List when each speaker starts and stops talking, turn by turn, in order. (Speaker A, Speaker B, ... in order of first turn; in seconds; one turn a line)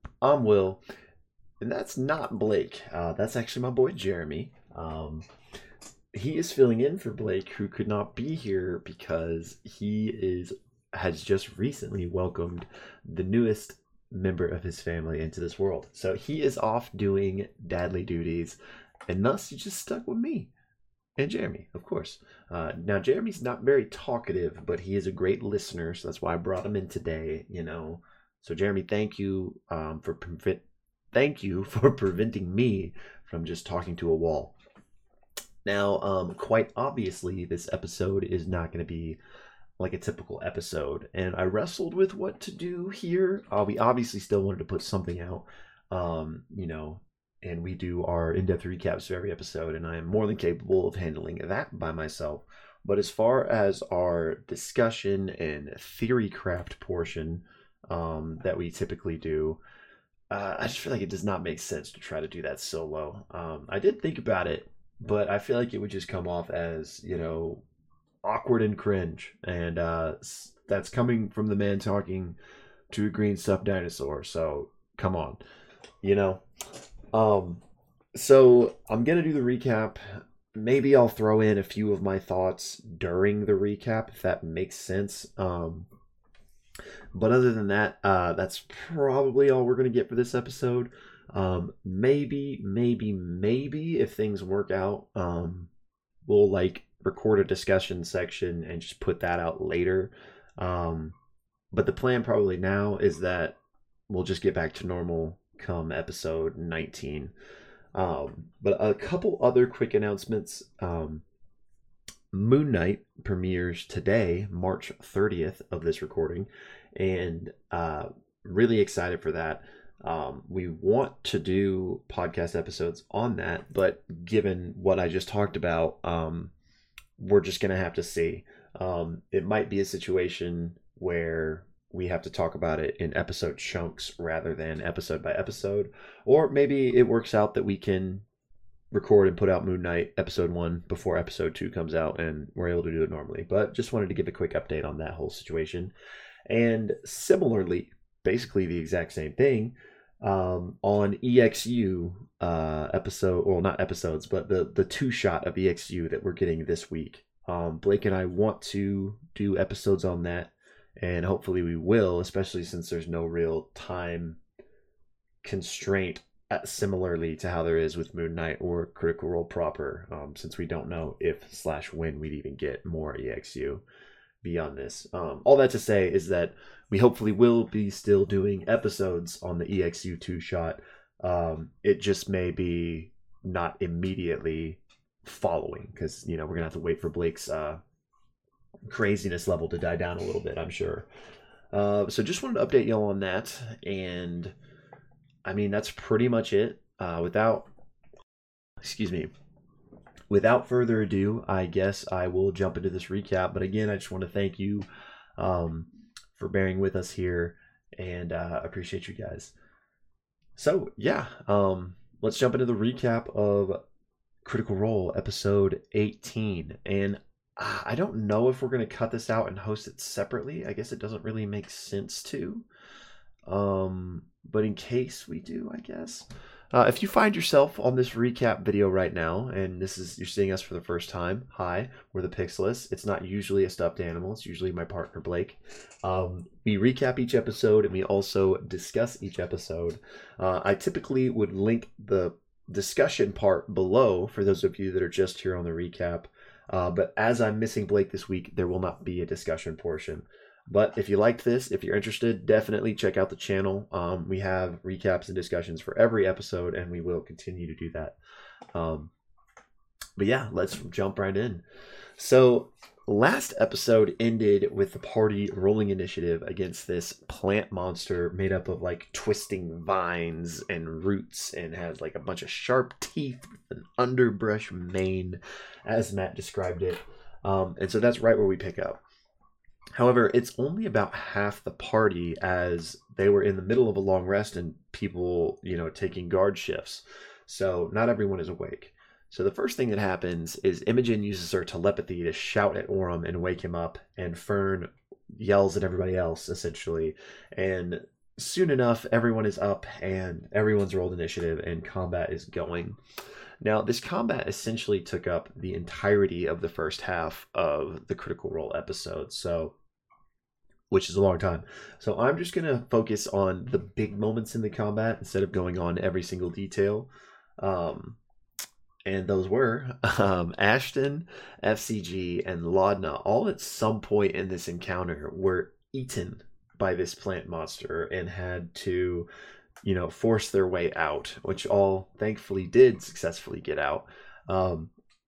Speaker A: 0.2-0.8
Speaker A: 1.6-5.2
Speaker A: 6.1-20.5
Speaker A: 21.2-34.5
Speaker A: 35.6-39.2
Speaker A: 39.8-59.6
Speaker A: 60.3-67.6
Speaker A: 68.2-72.4
Speaker A: 72.9-75.4
Speaker A: 76.0-76.4
Speaker A: 77.1-77.6
Speaker A: 78.1-85.9
Speaker A: 87.1-95.7
Speaker A: 96.2-101.1
Speaker A: 101.7-103.6
Speaker A: 104.1-107.3
Speaker A: 107.9-111.2
Speaker A: 112.3-126.5
Speaker A: 127.2-138.2
Speaker A: 138.9-145.9
Speaker A: 146.5-164.4
Speaker A: 165.4-173.8
Speaker A: 174.4-187.8
Speaker A: 188.9-191.1
Speaker A: 191.7-194.5
Speaker A: 195.4-197.7
Speaker A: 198.8-199.3
Speaker A: 200.3-209.5
Speaker A: 210.6-213.8
Speaker A: 214.4-222.7
Speaker A: 223.5-258.1
Speaker A: 258.7-259.1
Speaker A: 260.2-261.6
Speaker A: 262.2-279.0
Speaker A: 279.9-303.0
Speaker A: 303.6-309.7
Speaker A: 310.9-318.2
Speaker A: 319.0-329.3
Speaker A: 329.8-334.9